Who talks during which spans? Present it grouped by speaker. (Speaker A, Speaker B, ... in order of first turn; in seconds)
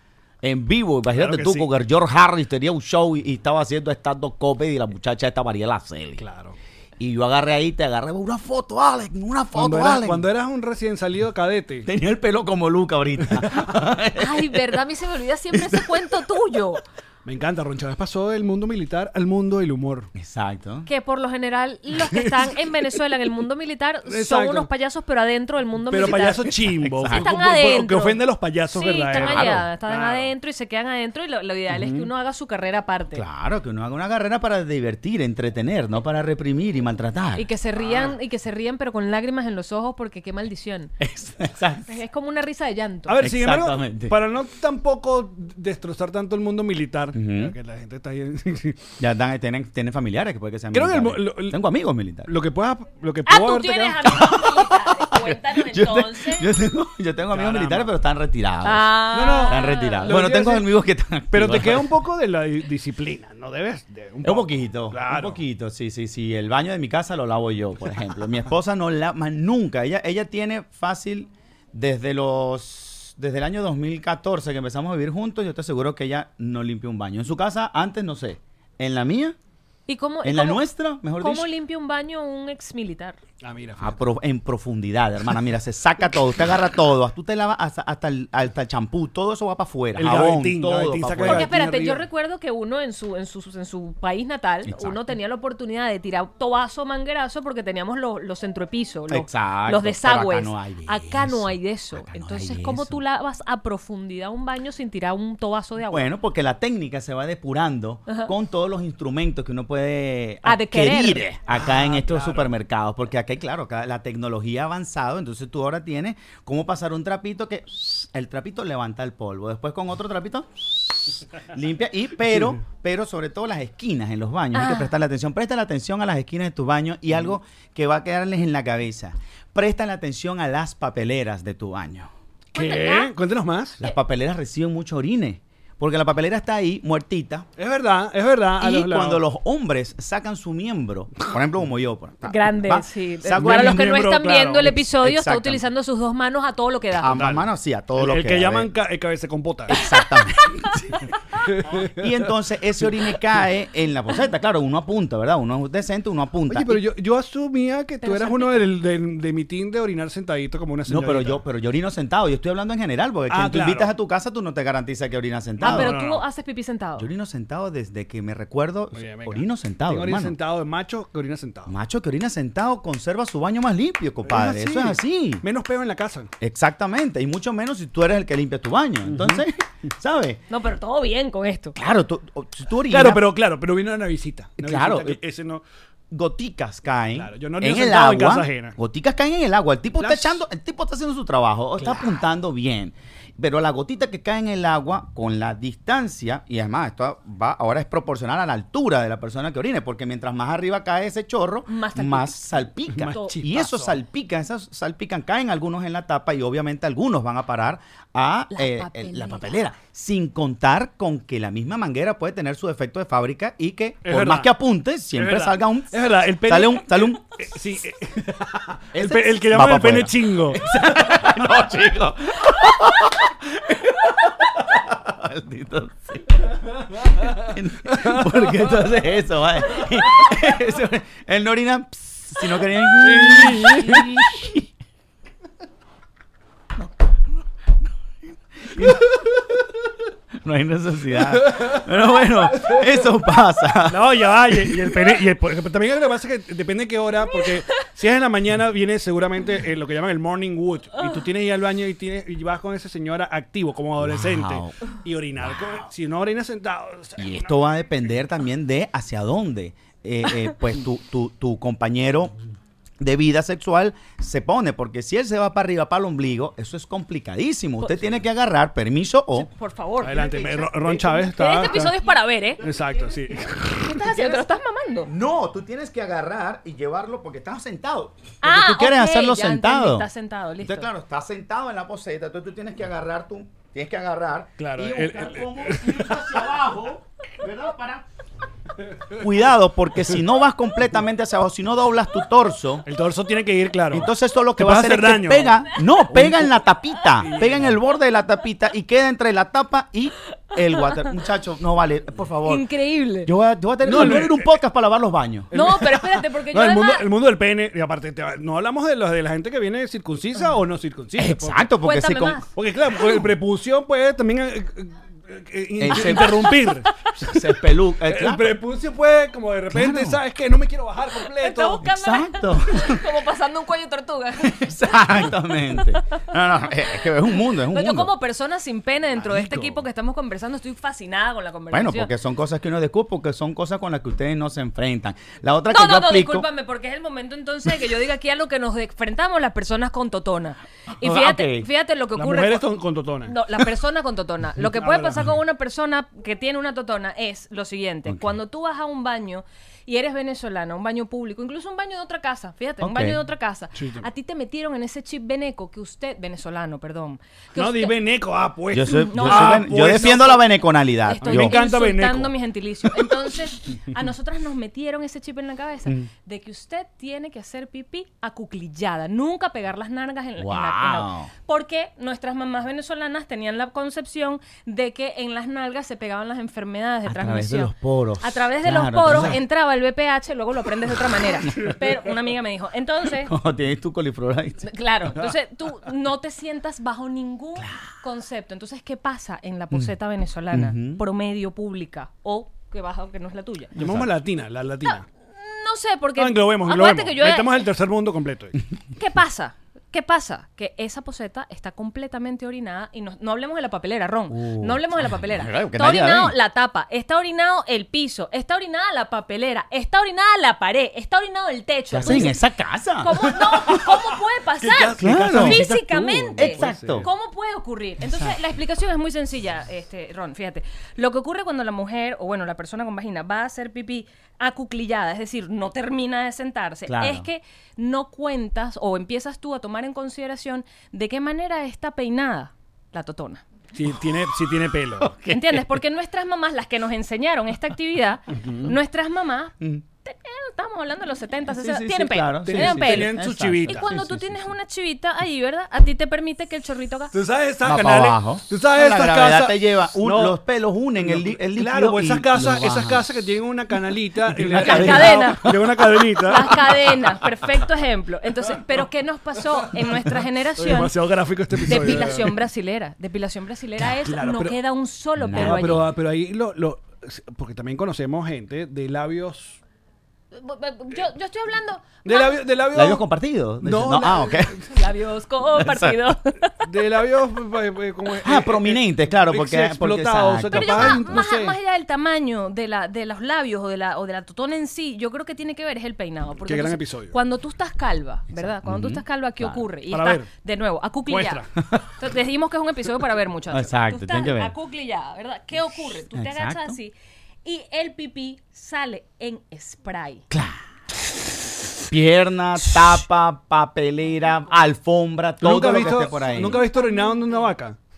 Speaker A: 0.4-6.2, 7.0-10.2, 11.8-14.6, 20.1-20.9, 26.9-27.3, 29.1-29.6, 31.7-32.1, 33.1-37.5, 41.0-42.0, 43.2-44.1, 47.1-47.5, 49.0-52.3, 54.3-61.9, 64.2-79.3, 80.2-81.5, 83.8-91.5, 94.6-95.0, 99.1-103.0, 105.8-132.1, 133.8-137.5, 138.6-144.0, 144.8-145.6, 147.0-148.7, 149.7-151.1, 151.9-156.8, 160.9-165.9, 167.0-170.3, 171.7-175.4, 176.4-180.4, 181.8-183.2, 184.6-185.2, 186.1-217.2, 218.9-226.4, 227.3-234.6, 238.7-239.0, 240.4-244.9, 254.0-254.8, 255.4-255.9, 257.2-262.3, 263.0-269.5, 270.1-271.2, 273.8-274.5, 275.0-280.1, 280.6-288.0, 289.1-292.9, 293.9-302.6, 303.2-305.5, 311.2-312.4, 315.8-316.5, 317.2-318.6, 319.7-320.2, 321.8-323.0, 324.4-328.1, 329.4-329.7, 331.7-336.5, 341.0-341.7, 348.1-348.3, 352.8-353.2, 358.7-361.6, 370.4-371.3, 377.0-379.4, 383.3-384.6, 390.5-391.0, 393.8-394.1, 404.3-406.3, 411.9-413.1, 415.0-415.7, 416.4-417.1, 418.0-418.4, 426.9-427.3, 435.0-435.6, 441.5-444.5, 447.6-453.0, 454.3-455.5, 461.7-462.0, 465.2-465.8, 472.7-474.6, 475.6-476.0, 478.2-481.2, 488.3-489.6, 493.5-494.5, 496.1-496.8, 500.3-500.6, 501.9-506.6
Speaker B: 1.1-1.7, 6.2-6.5, 9.5-11.9, 17.2-20.1, 21.9-22.5, 24.1-24.7, 25.9-30.3, 43.1-48.9, 50.7-51.6, 52.2-54.0, 57.3-57.9, 59.1-60.7, 61.3-65.4, 83.4-83.9, 90.0-92.0, 111.5-112.5, 132.5-133.8, 137.6-139.2, 143.3-144.8, 147.1-149.8, 151.5-152.3, 156.5-161.4, 163.3-163.9, 165.6-166.2, 168.9-171.7, 174.2-176.3, 179.0-179.4, 182.8-185.6, 187.1-188.8, 190.0-190.4, 202.9-203.9, 214.0-214.5, 215.2-220.8, 227.9-228.6, 233.0-234.3, 238.8-239.3, 241.3-241.8, 242.6-242.9, 243.9-257.5, 270.0-271.9, 272.6-273.8, 284.6-286.2, 292.9-295.6, 297.2-297.8, 303.8-304.5, 305.5-311.6, 312.6-316.9, 318.0-321.9, 342.1-343.4, 344.6-345.3, 353.8-354.1, 357.5-360.4, 361.2-362.3, 393.8-395.0, 396.1-398.6, 414.6-417.1, 433.7-435.1, 438.4-438.7, 442.4-443.9, 447.1-450.4, 451.0-456.9, 460.6-462.4, 464.0-464.6, 465.3-469.6, 472.0-473.0, 473.6-474.6, 476.6-481.6, 486.4-487.1, 489.9-490.3, 491.1-491.5, 505.4-507.8
Speaker C: 14.2-16.8, 20.9-28.2, 28.7-33.2, 37.4-40.9, 41.9-43.2, 53.3-56.5, 58.6-60.2, 79.9-80.6, 81.2-83.2, 91.2-106.1, 108.1-108.3, 110.4-111.3, 124.5-124.9, 132.5-133.1, 142.2-147.1, 158.0-158.6, 165.6-167.1, 180.5-181.8, 201.7-202.6, 203.1-203.7, 208.5-209.6, 267.8-268.1, 269.3-270.5, 271.1-272.6, 273.8-275.1, 278.4-280.9, 302.4-303.3, 305.5-307.1, 311.8-312.5, 316.0-317.1, 321.4-326.2, 327.7-332.1, 335.7-342.7, 343.2-358.0, 358.9-360.0, 361.1-383.3, 384.6-393.7, 394.8-397.6, 399.0-412.4, 413.0-433.4, 435.3-439.5, 440.0-447.1, 454.6-455.7, 456.2-460.9, 461.7-465.8, 470.3-472.4, 474.7-476.5, 480.5-491.4, 492.0-496.9, 497.4-500.2, 505.9-507.5